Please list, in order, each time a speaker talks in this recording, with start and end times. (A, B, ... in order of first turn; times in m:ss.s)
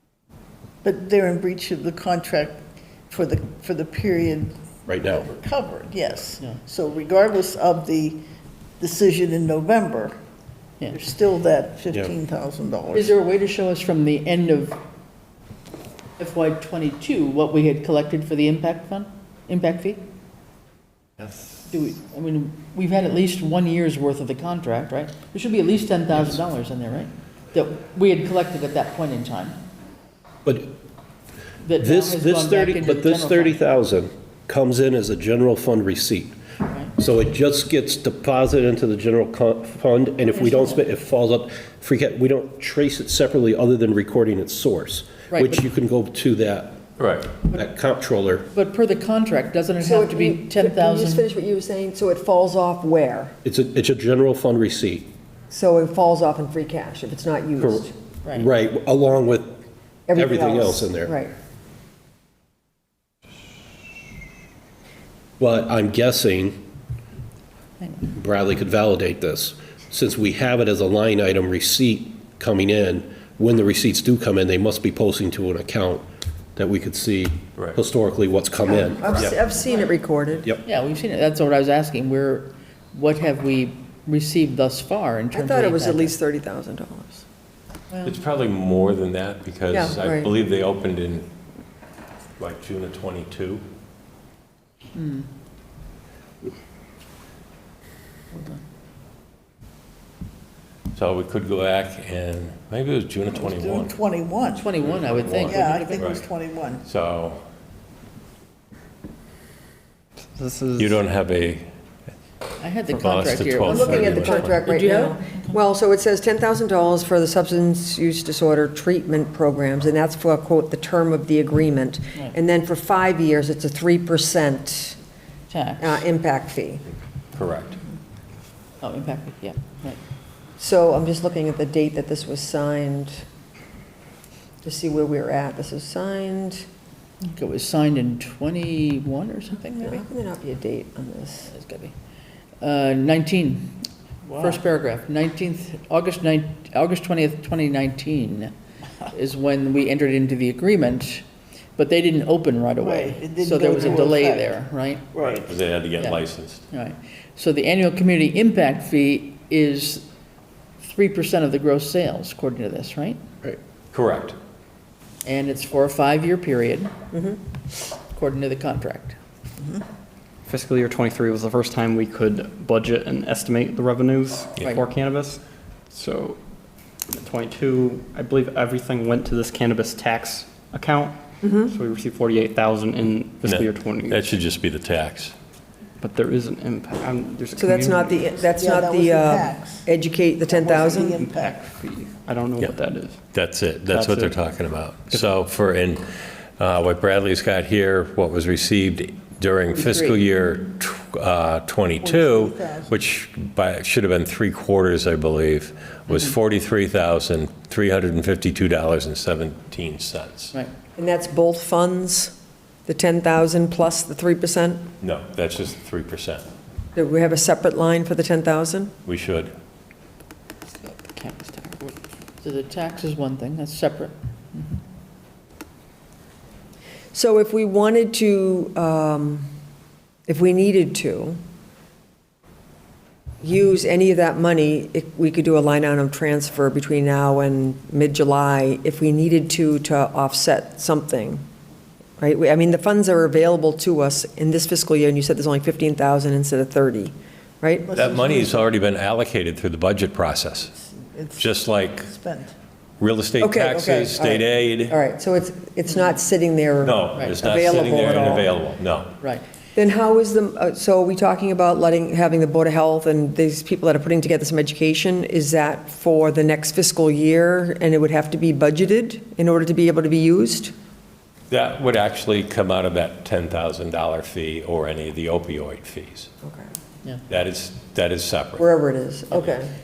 0:00.8-0:04.6 A
0:04.9-0:05.3 B
0:05.1-0:08.2 A
0:08.8-0:10.2 A
0:10.9-0:13.1 A
0:12.9-0:14.8 C
0:16.2-0:20.0 C
0:21.7-0:29.6 C
0:30.4-0:30.7 B
0:31.6-0:33.6 C
0:31.8-0:36.4 B
0:36.7-0:36.9 C
0:37.0-0:46.8 B
0:40.4-0:40.8 C
0:45.3-0:45.6 C
0:47.0-0:47.3 D
0:47.4-0:48.5 B
0:48.5-0:51.3 C
0:49.8-0:53.4 E
0:53.4-0:55.1 B
0:55.5-0:57.9 E
0:57.6-0:59.6 B
1:00.1-1:01.3 E
1:00.1-1:01.1 B
1:05.4-1:06.6 B
1:07.8-1:08.1 C
1:08.1-1:16.0 B
1:16.6-1:19.4 B
1:18.7-1:20.5 E
1:20.6-1:26.2 C
1:25.3-1:27.2 E
1:28.0-1:31.3 D
1:29.7-1:30.3 E
1:32.4-1:33.6 D
1:34.9-1:35.3 C
1:38.3-1:38.6 C
1:40.9-1:44.0 D
1:43.3-1:44.7 A
1:44.5-1:46.2 C
1:44.8-1:46.2 D
1:45.4-1:46.8 A
1:46.8-1:47.4 D
1:50.4-1:51.0 F
1:50.8-1:51.7 D
1:52.6-1:55.6 C
1:52.9-1:54.6 D
1:53.6-2:05.0 E
2:05.5-2:06.0 C
2:05.8-2:06.8 E
2:07.3-2:07.8 D
2:08.8-2:10.0 C
2:10.6-2:13.2 E
2:14.6-2:16.6 E
2:17.3-2:20.0 C
2:19.8-2:21.5 E
2:21.5-2:21.9 C
2:22.6-2:23.9 C
2:24.2-2:24.6 A
2:24.4-2:28.5 C
2:29.1-2:31.3 C
2:31.8-2:35.1 C
2:32.8-2:34.5 A
2:35.1-2:35.5 A
2:35.2-2:36.6 D
2:36.0-2:40.1 C
2:40.8-2:43.2 C
2:43.9-2:44.4 D
2:45.2-2:46.9 C
2:48.1-2:49.2 C
2:50.5-2:56.4 F
2:57.1-3:04.2 F
3:01.4-3:01.8 E
3:03.4-3:05.3 D
3:06.0-3:08.3 F
3:07.6-3:11.2 E
3:08.4-3:09.9 A
3:10.5-3:11.6 A
3:11.0-3:13.2 F
3:13.3-3:16.1 D
3:13.9-3:14.4 F
3:16.6-3:30.5 D
3:19.7-3:20.2 C
3:22.0-3:22.9 A
3:31.0-3:32.3 E
3:32.9-3:34.9 E
3:35.0-3:36.4 D
3:37.0-3:38.9 E
3:39.1-3:39.5 D
3:41.1-3:41.8 C
3:42.4-3:44.8 C
3:47.1-3:49.5 E
3:50.3-3:51.4 E
3:53.4-4:01.4 E
4:02.2-4:07.9 E
4:07.8-4:08.7 A
4:07.9-4:10.7 D
4:11.0-4:12.5 A
4:11.4-4:12.1 D
4:13.0-4:15.0 D
4:13.4-4:18.5 E
4:16.8-4:19.1 D
4:17.1-4:17.4 C
4:19.8-4:30.7 E
4:31.5-4:36.3 D
4:37.3-4:38.7 D
4:38.6-4:39.7 E